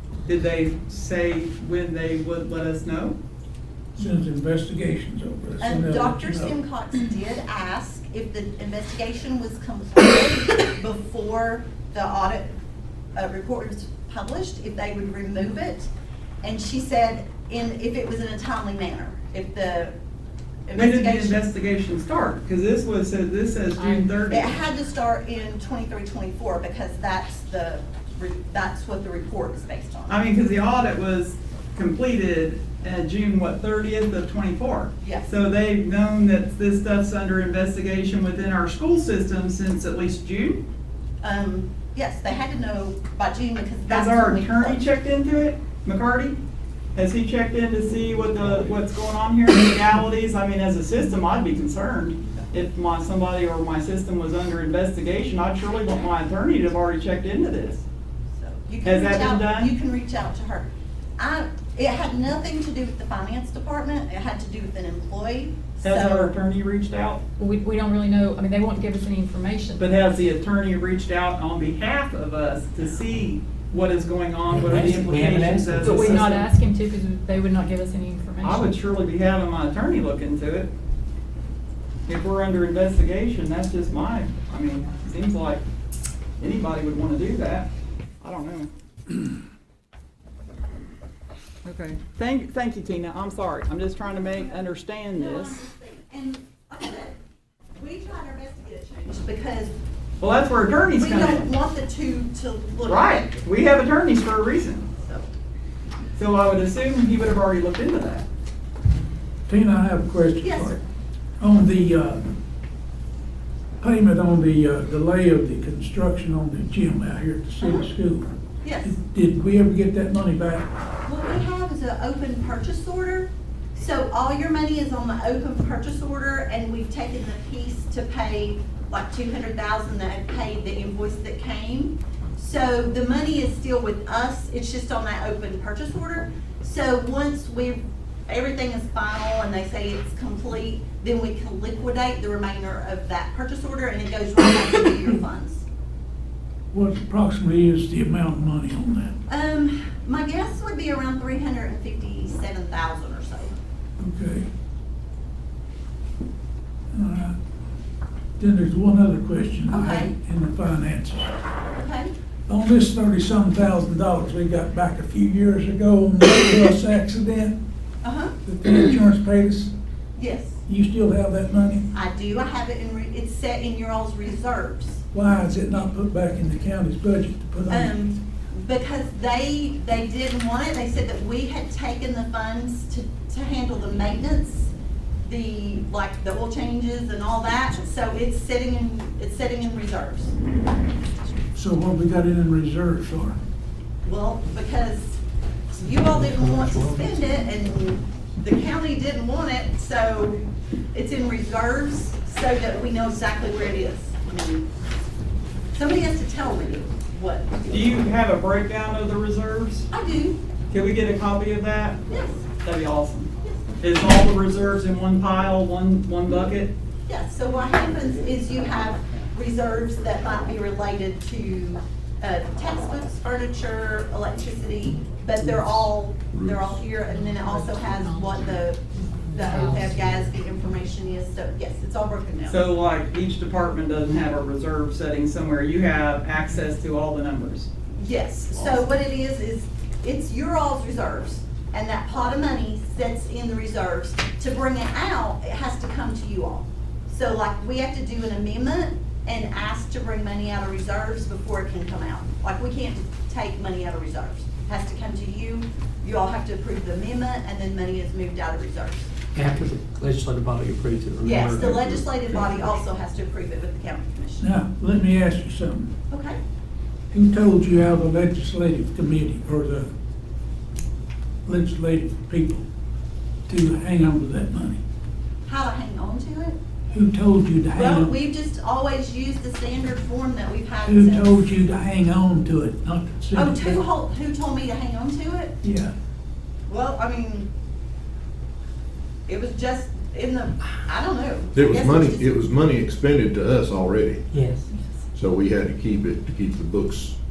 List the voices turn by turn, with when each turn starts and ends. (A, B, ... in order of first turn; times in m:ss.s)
0:00.2-0:03.2 A
0:04.0-0:06.6 B
0:05.6-0:12.5 C
0:13.2-0:15.9 C
0:16.4-0:19.9 C
0:20.7-0:21.4 C
0:20.7-0:24.6 A
0:23.8-0:24.1 D
0:24.2-0:30.2 C
0:30.1-0:40.6 A
0:35.0-0:35.3 C
0:41.2-0:44.8 C
0:43.9-0:46.4 A
0:46.9-0:57.8 A
0:58.4-1:06.3 C
0:58.8-0:59.7 A
1:05.8-1:07.2 A
1:07.4-1:09.9 D
1:09.8-1:16.5 A
1:14.5-1:16.3 E
1:15.8-1:18.7 D
1:18.4-1:20.7 A
1:22.1-1:25.6 A
1:26.4-1:27.7 A
1:28.2-1:28.7 A
1:31.6-1:35.6 A
1:35.1-1:37.2 C
1:37.8-1:39.7 C
1:40.2-1:41.5 A
1:41.0-1:43.3 C
1:42.8-1:44.9 A
1:45.0-1:45.3 C
1:46.2-1:48.2 A
1:49.5-1:50.8 B
1:50.4-1:50.8 C
1:51.4-1:52.3 B
1:53.8-1:58.3 B
1:57.6-1:57.9 C
1:58.6-1:59.0 C
1:58.8-2:00.7 B
2:01.0-2:25.6 C
2:26.7-2:29.2 B
2:29.3-2:33.5 C
2:34.0-2:34.5 B
2:36.9-2:37.4 B
2:38.4-2:41.3 B
2:39.7-2:40.1 C
2:41.7-2:42.1 C
2:42.5-2:47.6 B
2:48.0-2:48.3 C
2:48.4-2:49.7 B
2:50.2-2:50.6 C
2:50.6-2:51.9 B
2:51.9-2:55.0 C
2:55.1-2:58.0 B
2:57.7-3:04.7 C
3:05.2-3:10.4 C
3:11.5-3:13.4 B
3:14.0-3:15.2 C
3:15.7-3:20.4 C
3:15.9-3:17.2 E
3:20.9-3:24.7 C
3:25.7-3:27.9 C
3:27.7-3:29.9 A
3:29.9-3:30.4 C
3:30.7-3:32.0 A
3:32.1-3:32.5 C
3:32.6-3:33.3 A
3:33.8-3:36.7 A
3:37.1-3:52.7 C
3:46.3-3:46.8 F
3:47.0-3:48.4 D
3:49.4-3:50.0 D
3:52.5-3:57.7 A
3:57.9-4:19.1 C
3:58.5-3:58.8 A
4:19.3-4:22.7 E
4:21.2-4:24.5 C
4:24.4-4:25.9 B
4:26.1-4:26.4 C
4:27.1-4:29.9 B
4:31.4-4:32.6 B
4:33.5-4:34.8 B
4:35.5-4:36.6 C
4:36.9-4:38.1 B
4:37.8-4:41.4 C
4:40.8-4:43.8 B
4:43.3-4:45.6 C
4:45.6-4:45.9 B
4:46.7-4:47.5 C
4:49.3-4:52.3 C
4:51.5-4:54.3 F
4:54.3-4:54.7 E
4:55.1-4:57.2 F